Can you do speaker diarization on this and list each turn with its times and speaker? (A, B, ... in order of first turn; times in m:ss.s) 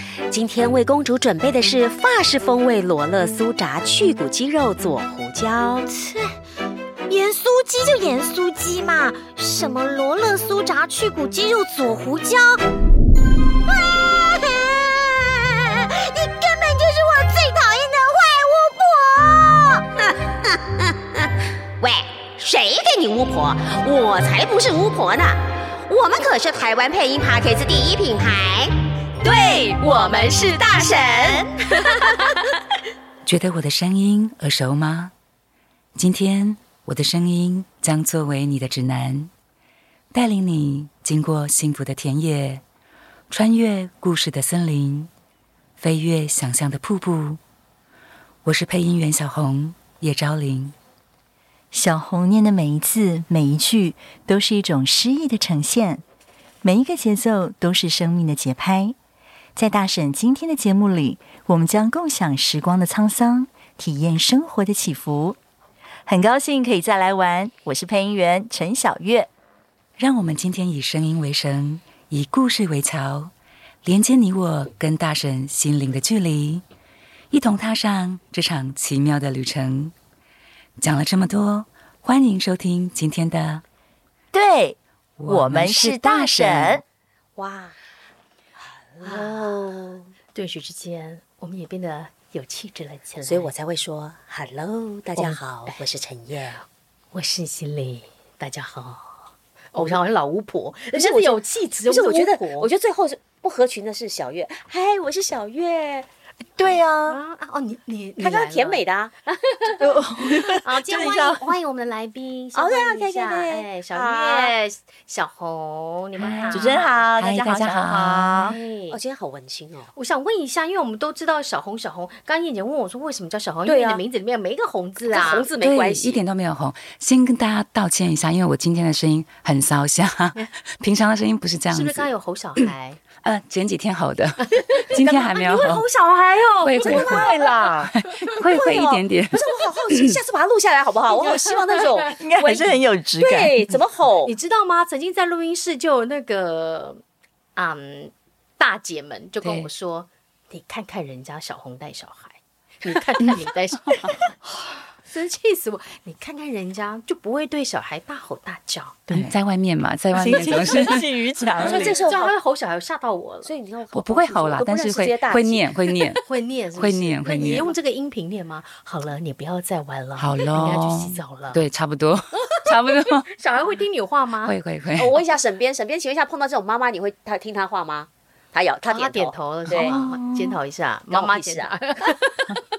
0:00.3-0:05.9 A
0:05.9-0:06.3 B
0:07.1-0:12.6 B
0:13.6-0:19.8 B
0:20.0-0:32.5 A
0:32.1-0:32.4 C
0:33.2-0:35.1 D
0:36.0-0:39.3 D
0:40.1-0:42.6 D
0:43.3-0:45.1 D
0:45.8-0:47.4 D
0:48.4-0:50.7 D
0:51.7-0:56.0 E
0:56.6-0:59.0 E
0:59.6-1:05.4 E
1:06.0-1:09.3 E
1:10.0-1:13.3 D
1:13.8-1:16.6 D
1:17.3-1:19.9 D
1:20.8-1:23.6 D
1:24.3-1:26.8 E
1:25.2-1:26.8 D
1:27.4-1:27.7 A
1:29.0-1:30.1 A
1:29.0-1:29.7 C
1:30.3-1:33.5 C
1:33.2-1:36.6 A
1:35.2-1:35.8 C
1:37.1-1:39.2 C
1:39.7-1:42.7 C
1:40.9-1:46.1 A
1:46.6-1:47.2 E
1:47.1-1:48.8 C
1:48.2-1:49.8 A
1:49.8-1:51.4 E
1:50.2-1:57.0 C
1:52.5-1:54.5 A
1:56.2-1:58.5 D
1:56.5-1:58.6 E
1:58.4-1:59.0 C
1:58.9-1:59.9 A
1:59.9-2:05.5 C
2:03.6-2:04.0 A
2:05.1-2:06.2 A
2:05.6-2:12.1 D
2:11.7-2:13.0 C
2:13.2-2:15.8 D
2:14.5-2:17.5 C
2:16.6-2:20.2 D
2:16.9-2:17.7 A
2:16.9-2:17.9 E
2:18.4-2:24.3 A
2:21.1-2:22.1 C
2:22.2-2:23.8 E
2:24.2-2:27.0 C
2:27.6-2:39.0 C
2:29.4-2:29.7 D
2:39.1-2:39.3 E
2:39.1-2:41.0 D
2:40.1-2:42.0 E
2:40.3-2:40.6 C
2:41.6-2:42.3 A
2:41.6-2:43.5 C
2:43.4-2:46.2 A
2:43.9-2:46.2 D
2:46.2-2:51.6 C
2:46.8-2:47.7 D
2:50.2-2:53.3 D
2:52.6-2:54.6 C
2:54.4-2:55.2 D
2:54.9-3:00.0 A
2:58.9-3:02.6 C
2:59.8-3:00.6 E
3:01.1-3:02.2 A